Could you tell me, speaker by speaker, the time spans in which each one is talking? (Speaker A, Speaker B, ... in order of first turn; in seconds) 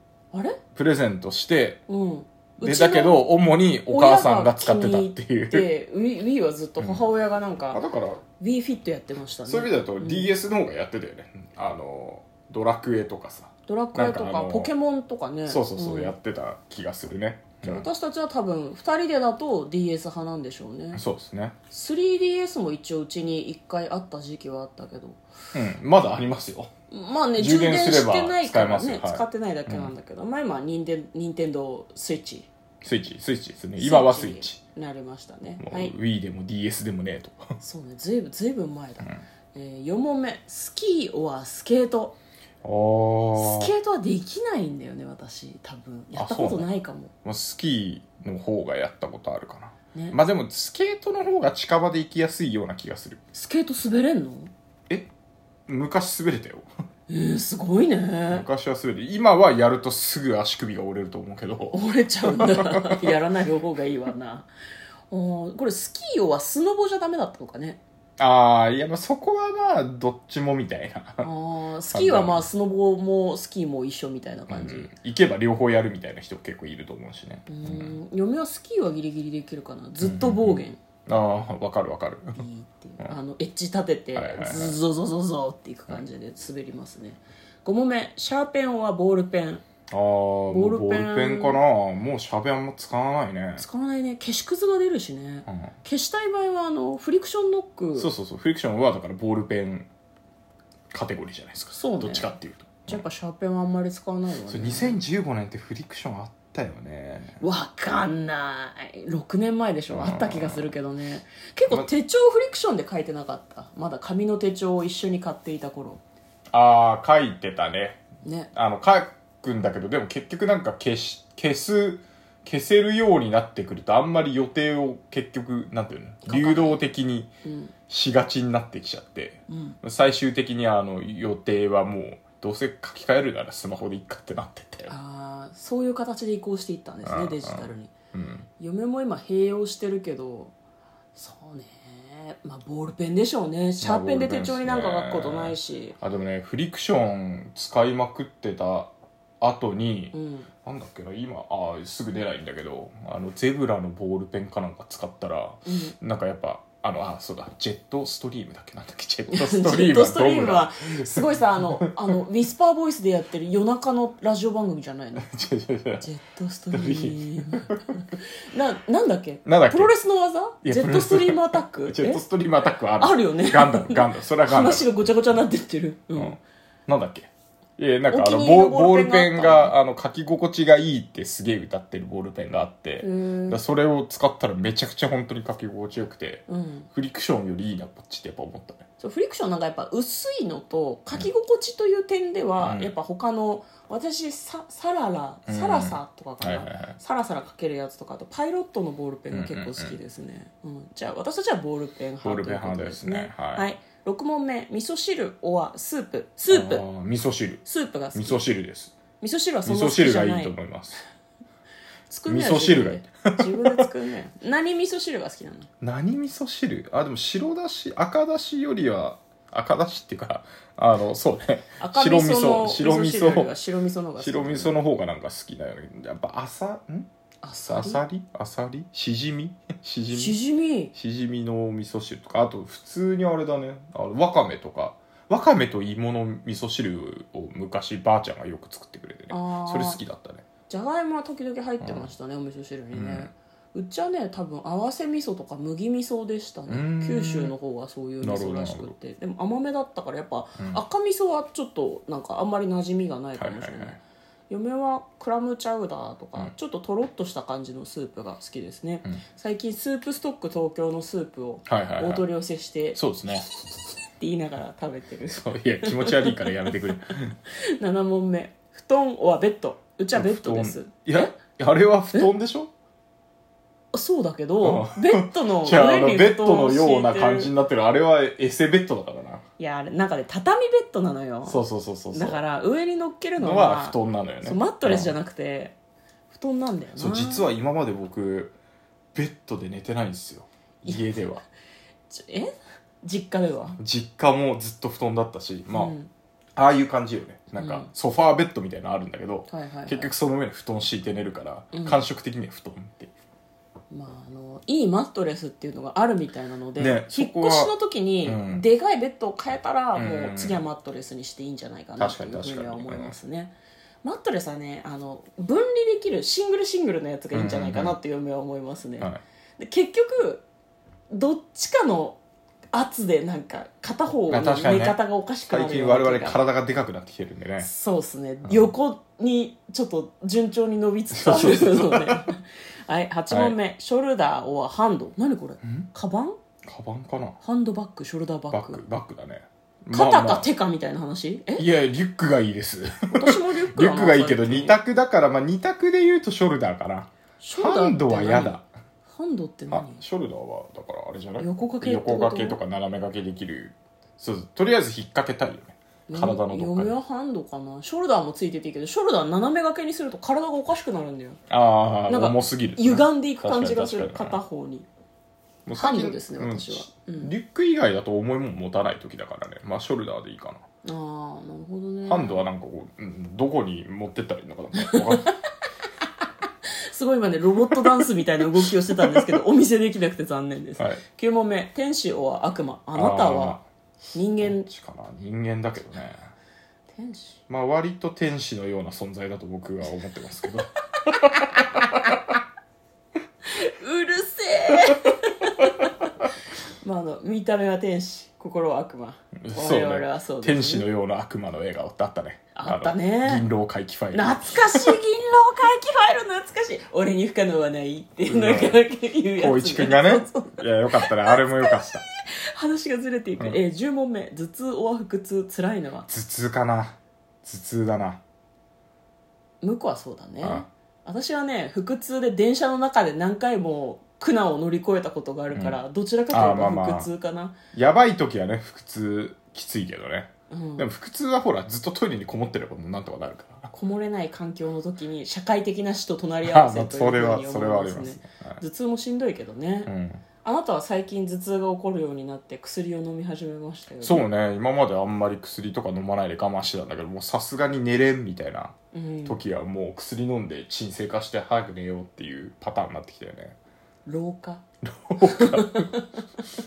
Speaker A: 0.3-0.6, 1.9-3.3, 3.9-7.8, 8.4-10.3, 13.7-16.1, 17.6-21.0, 21.7-25.2, 26.9-32.5, 33.8-35.9, 37.6-42.2, 43.3-47.1, 53.3-54.5, 57.1-58.5, 61.7-64.5, 65.1-67.8, 71.2-74.9, 77.5-80.8, 82.3-89.6, 90.5-91.6, 93.6-98.1, 101.7-102.3, 102.9-105.0, 107.4-116.0, 118.2-118.5, 126.2-126.8, 127.4-127.7, 129.5-129.8, 134.9-137.9, 138.6-140.5, 141.1-145.9, 150.1-150.5, 155.7-155.9, 159.3-165.3, 166.0-167.7, 168.4-172.2, 173.0-176.4, 178.1-179.8, 183.0-183.6, 186.5-186.9, 189.0-206.8, 207.6-208.4, 209.2-210.5, 212.1-215.7, 221.8-224.8, 227.4-228.0, 230.1-230.9, 239.3-240.0, 240.7-263.0, 264.1-266.9, 267.5-271.3, 273.9-277.5, 279.6-285.7, 286.3-287.5, 290.9-291.2, 292.1-293.8, 295.7-296.1, 297.6-297.9, 299.5-300.1, 301.7-302.0, 303.9-320.4, 321.1-322.2, 322.7-326.4, 327.6-336.4, 337.4-338.8, 339.9-341.7, 343.1-344.8, 347.4-350.0, 351.4-352.6, 356.1-361.4, 362.1-364.9, 365.7-367.3, 370.8-372.4, 374.8-375.4, 376.6-383.6, 384.1-384.7, 386.9-387.4, 393.4-395.9, 396.8-400.9, 402.5-403.5, 404.1-416.1, 419.6-427.6, 430.5-430.9, 433.7-439.9, 440.4-444.2, 448.9-449.4, 454.1-454.6, 455.2-456.2
Speaker B: 0.7-1.8, 2.6-5.7, 6.8-7.0, 7.7-8.2, 9.4-14.7, 15.4-17.9, 20.9-21.6, 25.5-26.7, 27.4-29.9, 32.8-34.6, 35.6-37.6, 42.6-43.7, 46.1-46.7, 47.2-53.2, 55.7-56.7, 58.3-63.1, 68.2-71.3, 71.9-72.4, 74.5-78.0, 80.0-82.4, 84.1-84.8, 89.9-93.6, 97.9-99.9, 100.9-103.0, 104.5-107.4, 109.9-110.7, 116.5-127.3, 127.9-134.9, 137.0-138.5, 143.8-162.2, 165.2-166.1, 166.7-167.9, 169.4-169.9, 170.6-174.9, 176.1-188.8, 192.6-192.9, 195.5-197.0, 199.3-200.0, 202.2-203.7, 206.5-208.9, 209.6-211.0, 212.3-213.8, 215.8-223.5, 224.2-227.1, 227.7-230.4, 230.9-240.4, 241.8-242.1, 242.9-243.3, 246.7-247.5, 248.2-248.9, 253.3-254.0, 261.7-262.2, 262.9-263.5, 265.3-267.4, 270.1-272.7, 274.6-279.4, 281.4-282.4, 283.4-285.1, 286.9-288.5, 289.1-291.4, 293.8-295.9, 296.6-303.1, 306.8-308.6, 309.9-310.6, 312.0-313.1, 317.3-317.9, 324.3-327.7, 328.4-328.7, 331.1-332.2, 333.3-333.6, 336.7-337.4, 338.5-340.5, 341.6-348.7, 349.7-356.9, 361.5-364.4, 365.6-370.6, 372.1-375.3, 378.6-379.3, 382.9-383.6, 384.4-386.3, 387.5-391.6, 399.4-405.0, 408.2-412.0, 416.1-418.2, 420.4-420.7, 425.5-427.1, 427.7-433.7, 436.4-438.6, 439.9-440.2, 444.0-453.6, 454.8-455.9